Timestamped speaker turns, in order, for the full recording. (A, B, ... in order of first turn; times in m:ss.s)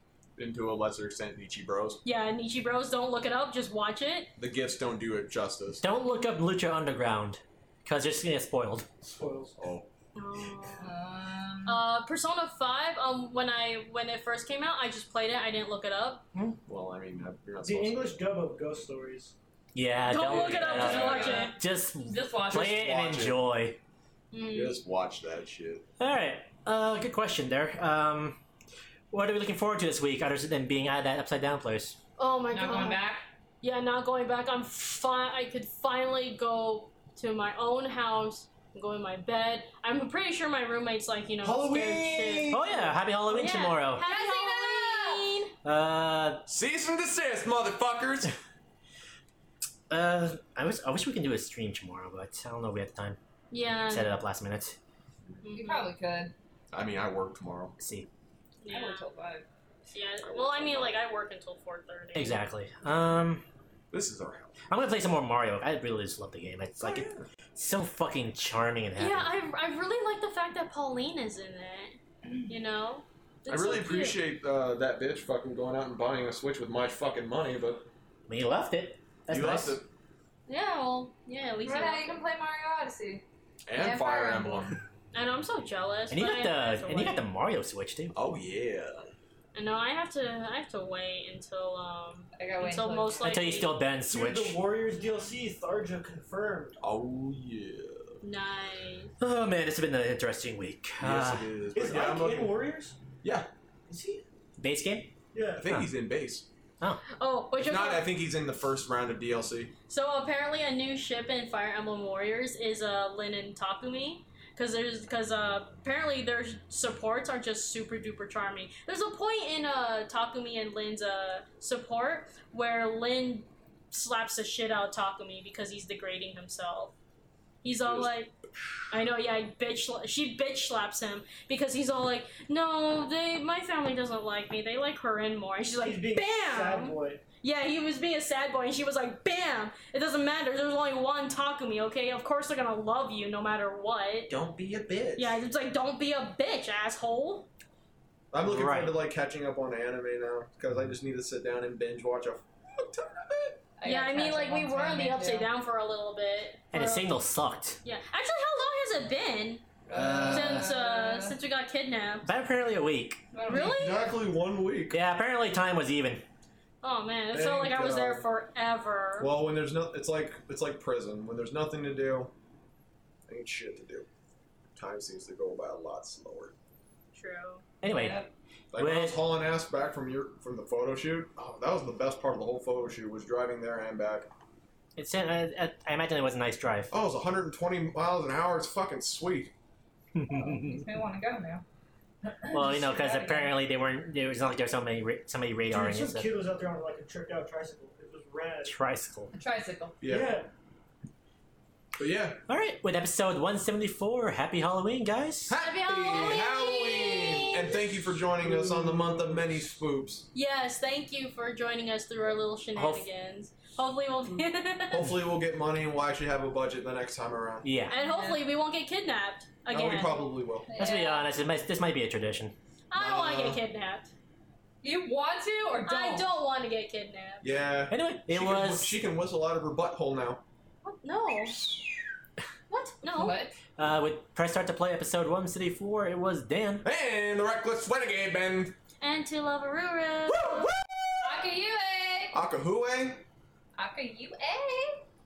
0:00.4-0:02.0 A
0:02.0-0:04.3 B
0:04.4-0:05.8 A
0:05.8-0:08.9 C
0:09.0-0:09.5 D
0:09.6-0:09.9 A
0:10.1-0:10.9 B
0:10.8-0:11.8 E
0:11.6-0:16.2 B
0:16.7-0:18.2 A
0:17.6-0:19.3 D
0:19.7-0:23.8 C
0:20.1-0:21.6 B
0:20.3-0:21.4 A
0:20.8-0:21.5 E
0:22.0-0:22.8 E
0:22.5-0:23.4 A
0:24.3-0:24.8 B
0:24.5-0:25.8 A
0:26.0-0:28.4 C
0:29.1-0:32.0 C
0:32.2-0:33.0 B
0:32.5-0:33.2 E
0:33.6-0:45.5 B
0:41.4-0:42.6 A
0:42.5-0:44.0 C
0:44.0-0:45.3 E
0:45.6-0:46.4 C
0:46.5-0:48.3 A
0:49.9-0:53.2 C
0:53.5-0:54.1 B
0:53.9-0:54.8 C
0:55.4-0:55.9 B
0:55.5-0:56.3 E
0:56.7-0:57.7 A
0:57.8-0:58.1 C
0:58.6-0:59.0 B
0:58.7-0:59.4 E
0:59.9-1:02.4 B
1:00.2-1:01.0 A
1:02.1-1:03.4 C
1:03.9-1:04.5 A
1:04.7-1:09.3 C
1:06.8-1:07.1 A
1:09.0-1:14.2 B
1:13.5-1:17.9 A
1:18.3-1:19.8 C
1:19.3-1:19.8 A
1:20.5-1:22.2 B
1:21.6-1:24.7 E
1:23.7-1:24.8 A
1:25.1-1:27.2 B
1:26.1-1:28.2 C
1:28.1-1:29.1 A
1:29.5-1:33.7 B
1:32.4-1:33.4 E
1:33.2-1:34.6 C
1:34.1-1:36.8 D
1:36.8-1:38.2 A
1:38.2-1:39.1 B
1:39.2-1:41.5 C
1:41.0-1:42.5 A
1:41.7-1:43.0 D
1:43.2-1:43.5 A
1:43.9-1:44.2 D
1:44.6-1:45.1 C
1:45.3-1:45.6 D
1:45.6-1:46.4 A
1:45.6-1:45.9 C
1:47.2-1:48.1 B
1:47.6-1:49.7 A
1:49.9-2:06.9 B
2:07.6-2:08.3 B
2:07.8-2:08.2 A
2:08.9-2:24.3 B
2:15.8-2:17.2 D
2:24.3-2:25.4 A
2:25.2-2:27.5 B
2:28.3-2:33.6 A
2:28.4-2:29.0 C
2:33.8-2:35.5 E
2:33.8-2:37.1 B
2:36.7-2:37.8 C
2:37.8-2:39.6 B
2:39.9-2:41.4 E
2:39.9-2:40.7 C
2:40.3-2:42.3 B
2:42.2-2:43.2 C
2:43.3-2:44.0 E
2:43.4-2:44.1 B
2:43.5-2:45.0 A
2:44.9-2:46.2 C
2:46.8-2:49.3 B
2:47.3-2:48.2 A
2:49.2-2:52.3 A
2:53.3-2:54.1 A
2:54.8-2:56.5 A
2:57.1-2:57.6 B
2:57.8-2:58.2 C
2:57.8-2:58.3 E
2:58.7-3:04.3 A
2:58.8-2:59.2 C
3:05.0-3:06.9 C
3:06.9-3:09.5 A
3:10.2-3:10.8 C
3:10.3-3:11.6 E
3:12.5-3:16.3 C
3:12.5-3:13.5 E
3:15.7-3:18.8 D
3:18.6-3:19.3 C
3:19.3-3:20.0 E
3:20.0-3:20.4 A
3:20.0-3:20.5 D
3:22.0-3:22.4 A
3:22.5-3:25.5 C
3:25.5-3:30.3 A
3:25.6-3:27.8 B
3:28.4-3:29.6 D
3:30.3-3:35.1 B
3:32.7-3:33.0 C
3:34.9-3:37.7 A
3:37.6-3:38.0 C
3:37.9-3:40.2 B
3:38.0-3:38.4 E
3:39.7-3:40.7 A
3:40.7-3:41.3 E
3:40.8-3:42.5 C
3:42.9-3:44.1 B
3:43.0-3:43.6 A
3:44.8-3:46.3 E
3:45.8-3:47.5 B
3:47.4-3:50.4 A
3:47.9-3:49.0 C
3:50.8-3:51.6 B
3:52.7-3:53.4 B
3:53.0-3:53.5 E
3:53.8-3:56.8 C
3:56.8-3:58.7 A
3:59.0-4:00.6 B
4:00.3-4:01.3 A
4:01.2-4:02.4 E
4:02.3-4:03.2 A
4:03.8-4:05.0 E